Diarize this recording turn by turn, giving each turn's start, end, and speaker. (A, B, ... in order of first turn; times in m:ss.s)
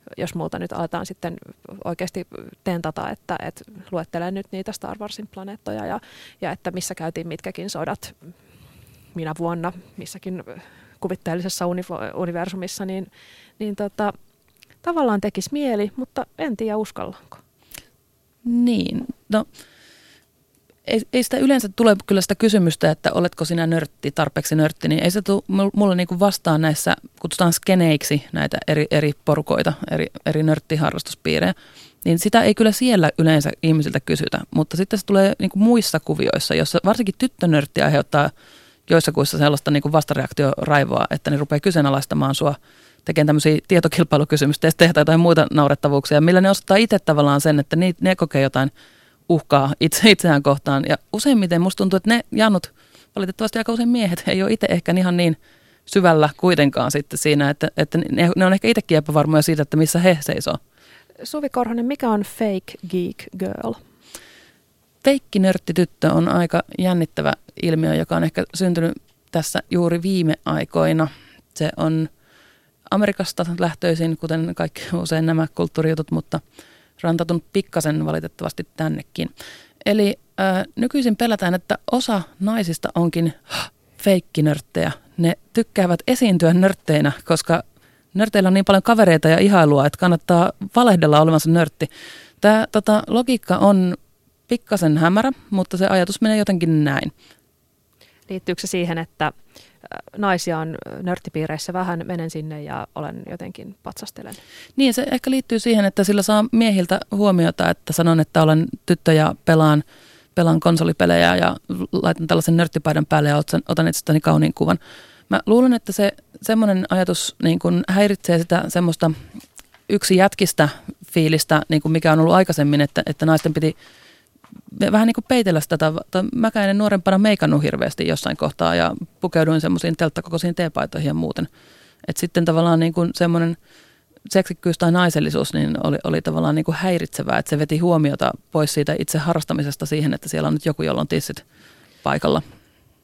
0:00.2-0:08.1 A
0:09.1-0:13.1 A
0:13.6-0:14.1 A
0:14.8-0:17.4 A
0:18.4-0:19.5 B
0:20.8-0:31.5 B
0:32.0-0:38.3 B
0:38.9-0:48.7 B
0:49.3-1:00.6 B
1:01.2-1:03.8 A
1:05.0-1:12.1 B
1:12.9-1:16.4 B
1:17.0-1:19.3 B
1:19.8-1:27.6 B
1:28.1-1:31.9 B
1:32.4-1:34.0 B
1:34.5-1:37.1 B
1:38.3-1:39.3 A
1:39.8-1:44.4 A
1:44.8-1:49.8 B
1:50.3-1:59.2 B
1:59.9-2:03.7 B
2:04.7-2:11.5 B
2:12.0-2:13.6 B
2:14.3-2:21.4 B
2:22.0-2:22.4 B